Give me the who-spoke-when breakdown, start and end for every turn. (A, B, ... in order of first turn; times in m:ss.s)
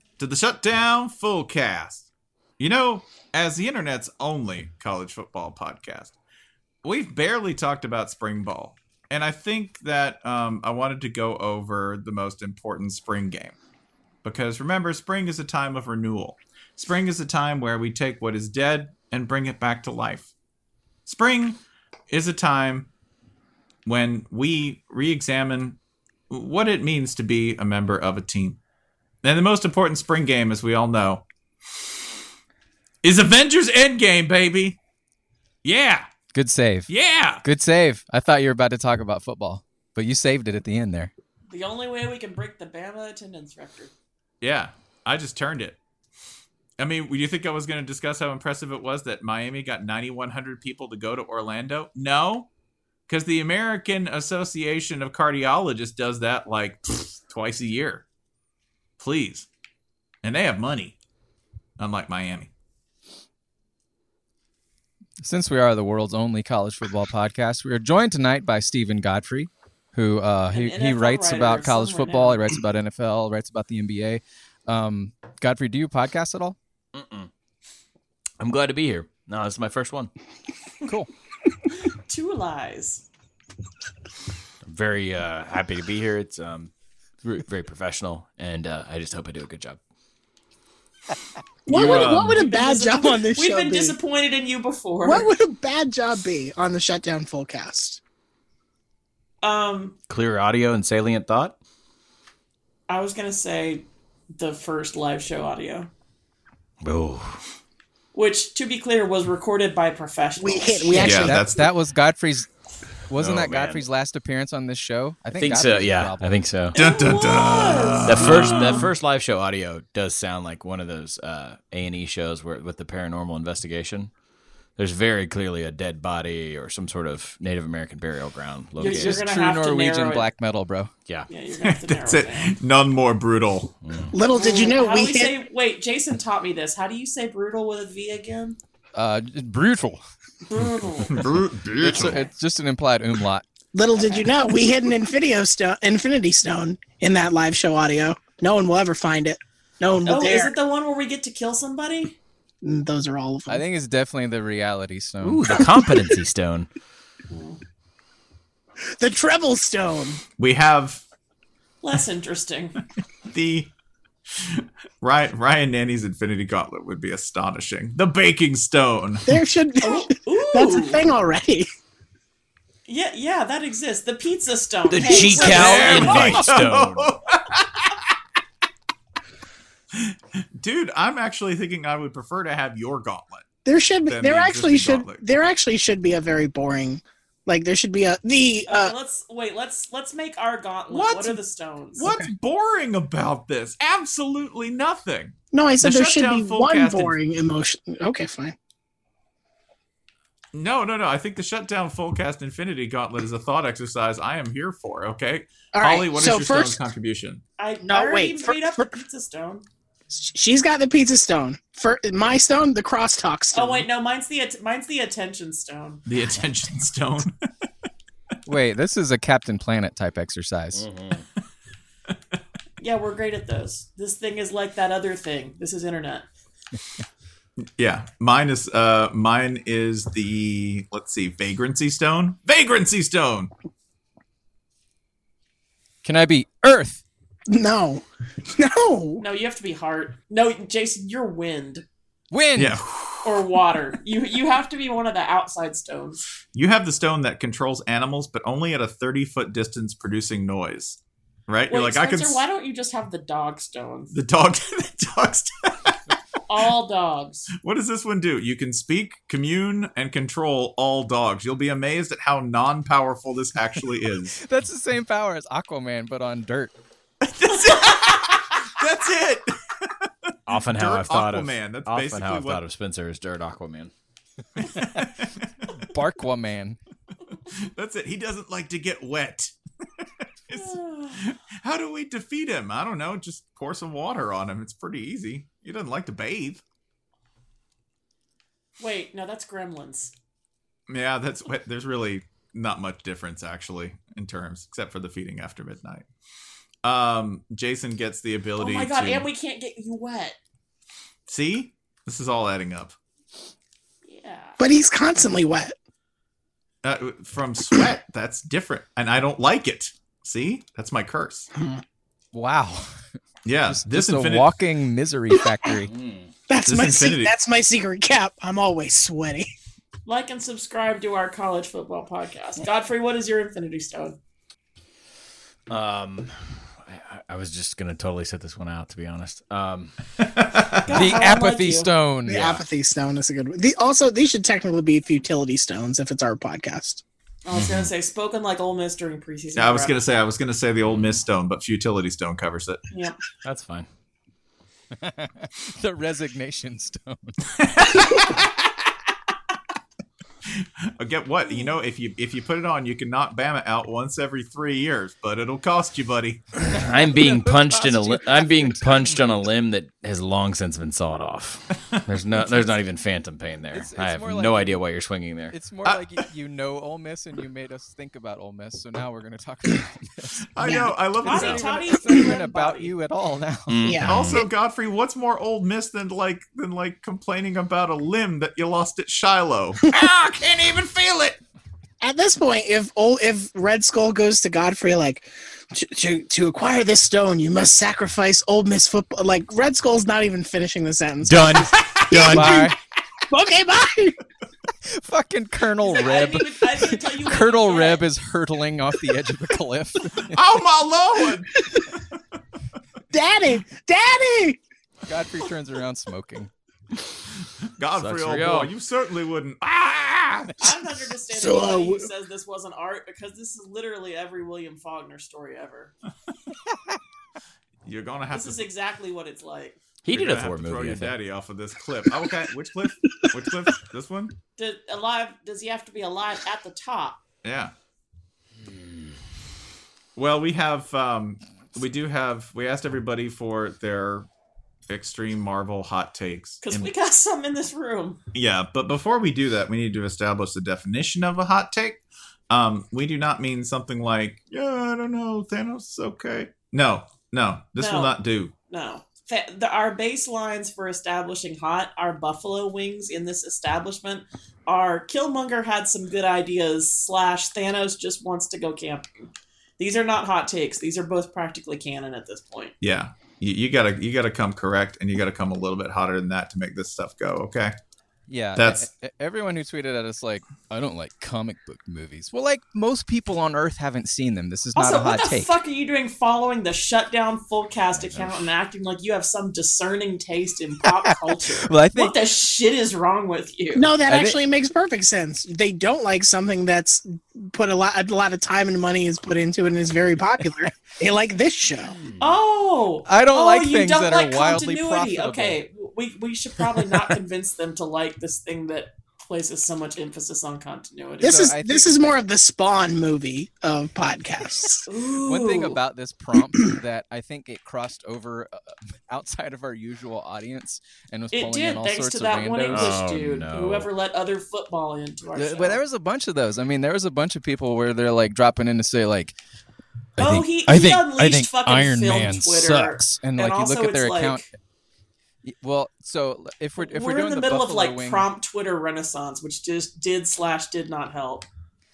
0:00.2-0:02.1 A
0:02.6-0:06.1 A
0:06.8-0:13.6 A
0:14.2-0:20.3 A
0:21.1-0:21.6 A
0:22.1-0:22.9 A
0:23.9-0:25.8 A
0:26.3-0:28.6 A
0:29.2-0:31.2 A
0:33.0-0:34.8 A
0:35.6-0:36.1 A
0:36.3-0:36.9 B
0:36.9-0:37.4 A
0:37.4-0:41.1 B
0:41.5-0:43.9 C
0:44.4-0:45.8 A
0:46.8-0:52.5 A
0:53.1-0:58.0 A
0:59.0-0:59.5 A
1:00.2-1:01.0 A
1:01.8-1:02.5 A
1:05.2-1:16.6 B
1:10.5-1:12.5 C
1:16.9-1:17.3 D
1:18.4-1:20.1 D
1:21.8-1:23.0 C
1:24.7-1:26.7 D
1:27.2-1:29.8 D
1:31.7-1:34.0 E
1:31.7-1:32.4 A
1:31.8-1:35.3 C
1:35.0-1:38.0 E
1:39.4-1:40.0 C
1:40.1-1:41.6 D
1:42.9-1:45.9 C
1:46.8-1:47.4 D
1:48.1-1:51.4 C
1:50.4-1:51.4 E
1:51.0-1:51.7 A
1:51.0-1:52.5 B
1:53.1-1:56.4 B
1:53.2-1:53.8 D
1:55.3-1:56.8 D
1:56.7-1:58.9 C
1:56.8-1:58.9 A
1:58.1-2:04.1 D
2:04.8-2:09.2 D
2:08.8-2:10.3 C
2:08.8-2:10.9 B
2:11.3-2:12.6 C
2:11.6-2:13.7 A
2:13.8-2:14.2 D
2:14.1-2:15.4 E
2:14.3-2:18.6 C
2:19.0-2:20.0 B
2:20.5-2:21.3 C
2:21.0-2:22.2 A
2:21.8-2:23.4 B
2:23.7-2:30.5 E
2:30.0-2:32.2 C
2:32.6-2:33.6 E
2:33.5-2:35.5 B
2:35.2-2:36.7 D
2:35.6-2:36.1 E
2:37.3-2:37.6 C
2:38.8-2:40.2 E
2:40.4-2:41.0 A
2:41.8-2:42.8 C
2:43.3-2:43.7 A
2:44.4-2:49.3 A
2:49.2-2:51.7 E
2:49.8-2:51.0 C
2:52.9-2:56.5 C
2:54.9-2:57.1 D
2:55.0-2:58.0 A
2:59.9-3:03.5 A
3:03.6-3:08.9 E
3:04.1-3:05.2 A
3:08.7-3:12.1 C
3:10.9-3:11.4 A
3:12.0-3:17.2 A
3:15.5-3:18.6 E
3:20.5-3:27.4 A
3:25.7-3:26.8 E
3:27.6-3:29.7 C
3:27.8-3:28.9 E
3:30.1-3:33.9 E
3:33.5-3:36.0 C
3:36.1-3:37.3 A
3:38.5-3:40.8 B
3:40.8-3:41.3 D
3:42.8-3:46.3 C
3:47.8-3:53.5 A
3:56.0-3:57.0 B
3:57.5-3:59.2 E
3:59.2-4:01.8 C
4:02.3-4:02.8 B
4:02.6-4:03.5 A
4:03.2-4:06.2 C
4:06.5-4:12.4 A
4:11.7-4:14.1 C
4:14.1-4:16.0 A
4:16.5-4:17.5 C
4:17.6-4:24.4 A
4:24.4-4:26.7 B
4:27.2-4:32.6 A
4:30.5-4:33.9 D
4:34.6-4:35.8 A
4:34.8-4:35.1 B
4:35.9-4:36.8 B
4:37.6-4:39.5 A
4:40.5-4:46.6 A
4:40.6-4:41.2 C
4:48.8-4:50.1 C
4:50.9-4:56.1 A
4:56.8-4:59.3 A
4:58.6-5:00.4 C
5:01.3-5:03.0 A
5:04.0-5:04.6 C
5:04.6-5:05.8 E
5:06.8-5:11.5 A
5:11.6-5:11.8 E
5:12.3-5:12.9 B
5:13.4-5:14.5 A
5:13.7-5:15.9 B
5:15.9-5:16.3 D
5:16.5-5:19.5 E
5:16.7-5:17.3 A
5:20.1-5:24.2 C
5:25.7-5:30.0 D
5:30.2-5:31.1 A
5:30.8-5:31.9 C
5:30.9-5:32.4 B
5:32.3-5:37.0 E
5:32.3-5:32.6 D
5:37.4-5:40.0 C
5:37.5-5:37.9 D
5:39.6-5:42.8 A
5:40.8-5:41.2 D
5:42.9-5:43.2 C
5:43.4-5:43.9 D
5:45.0-5:47.4 B
5:47.6-5:48.5 A
5:50.6-5:56.7 A
5:56.7-5:59.4 B
5:56.7-6:05.5 D
6:03.7-6:04.8 B
6:05.5-6:13.8 B
6:10.5-6:12.0 A
6:10.6-6:10.9 E
6:11.2-6:12.9 C
6:13.7-6:14.4 D
6:13.8-6:14.5 E
6:14.1-6:21.4 A
6:22.0-6:32.8 E
6:31.2-6:32.7 D
6:32.3-6:32.8 B
6:33.3-6:34.2 E
6:34.8-6:40.4 B
6:35.8-6:38.1 C
6:40.2-6:41.7 A
6:43.1-6:44.6 E
6:45.1-6:46.5 B
6:47.8-6:50.7 A
6:48.0-6:48.7 D
6:50.6-6:55.9 C
6:51.3-6:52.1 E
6:57.8-6:58.7 A
6:58.3-6:59.8 C
7:00.0-7:01.1 D
7:00.1-7:04.4 A
7:04.6-7:07.2 C
7:07.4-7:07.7 A
7:10.2-7:14.3 A
7:14.9-7:16.9 A
7:16.6-7:18.2 C
7:18.3-7:28.5 A
7:27.8-7:28.2 C
7:28.7-7:42.8 C
7:42.8-7:47.8 A
7:48.3-7:55.5 B
7:48.6-7:48.9 A
7:54.8-8:03.9 C
7:58.0-7:58.5 D
8:00.9-8:02.2 B
8:03.7-8:12.0 E
8:04.1-8:04.4 B
8:12.0-8:12.4 D
8:12.2-8:21.5 C
8:13.1-8:15.6 B
8:21.2-8:24.9 E
8:21.2-8:22.1 B
8:24.9-8:25.8 C
8:25.2-8:32.9 B
8:31.3-8:35.8 C
8:32.7-8:33.9 D
8:35.4-8:39.4 B
8:40.2-8:44.5 B
8:40.2-8:44.5 C
8:45.4-8:48.3 B
8:46.8-8:51.5 C